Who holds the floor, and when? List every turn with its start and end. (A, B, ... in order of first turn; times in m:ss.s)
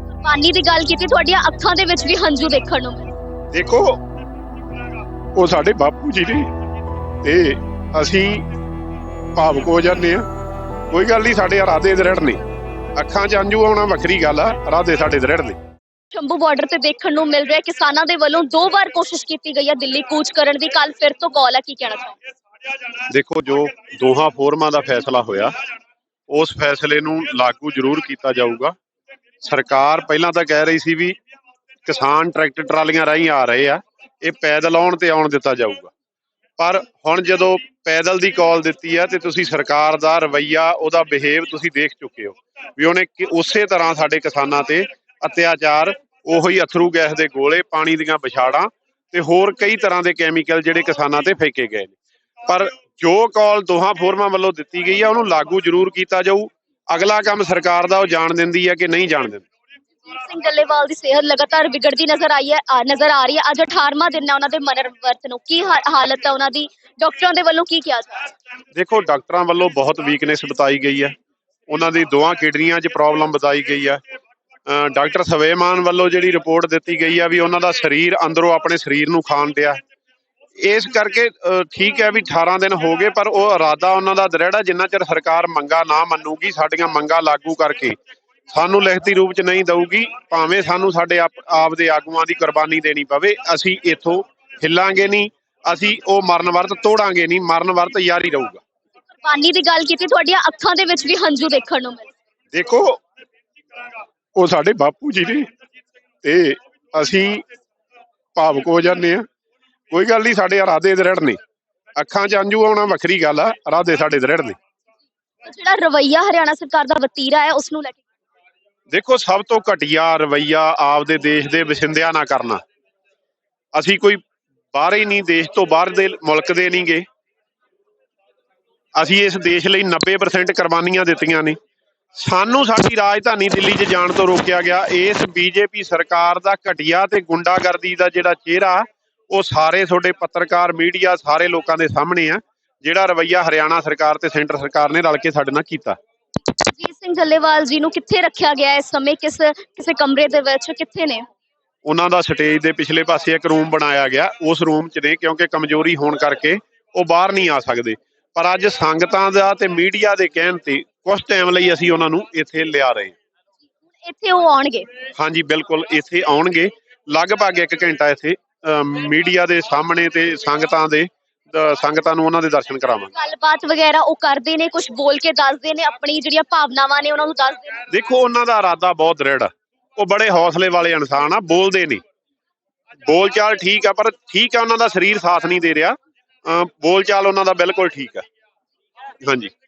0:00.2-0:03.1 A
0:03.5-0:04.0 B
0:05.4-0:06.5 B
0:07.2-0:08.4 B
0:09.4-0:10.2 B
0:10.9-0:12.4 B
0:13.0-0:15.6 B
0:16.1-0:22.2 A
0:23.1-0:25.5 B
0:26.3-0:28.7 B
0:29.4-0:31.2 B
0:31.8-0:35.9 B
0:36.6-0:51.9 B
0:52.4-0:59.4 B
1:00.1-1:08.3 A
1:08.7-1:11.1 B
1:11.7-1:14.0 B
1:14.7-1:19.8 B
1:20.6-1:28.0 B
1:28.5-1:38.6 B
1:39.2-1:42.1 A
1:42.5-1:43.0 B
1:44.4-1:45.5 B
1:46.2-1:47.4 B
1:48.4-1:49.2 B
1:49.9-1:51.4 B
1:52.0-1:54.6 B
1:55.4-1:58.0 A
1:58.9-2:02.6 B
2:03.7-2:04.2 B
2:04.7-2:07.0 B
2:09.0-2:11.6 B
2:12.2-2:26.0 B
2:26.7-2:31.2 A
2:31.8-2:43.2 B
2:44.0-2:44.9 A
2:45.1-2:53.1 B
2:53.2-2:57.8 A
2:57.9-3:02.0 B
3:03.0-3:08.2 B
3:09.2-3:09.5 B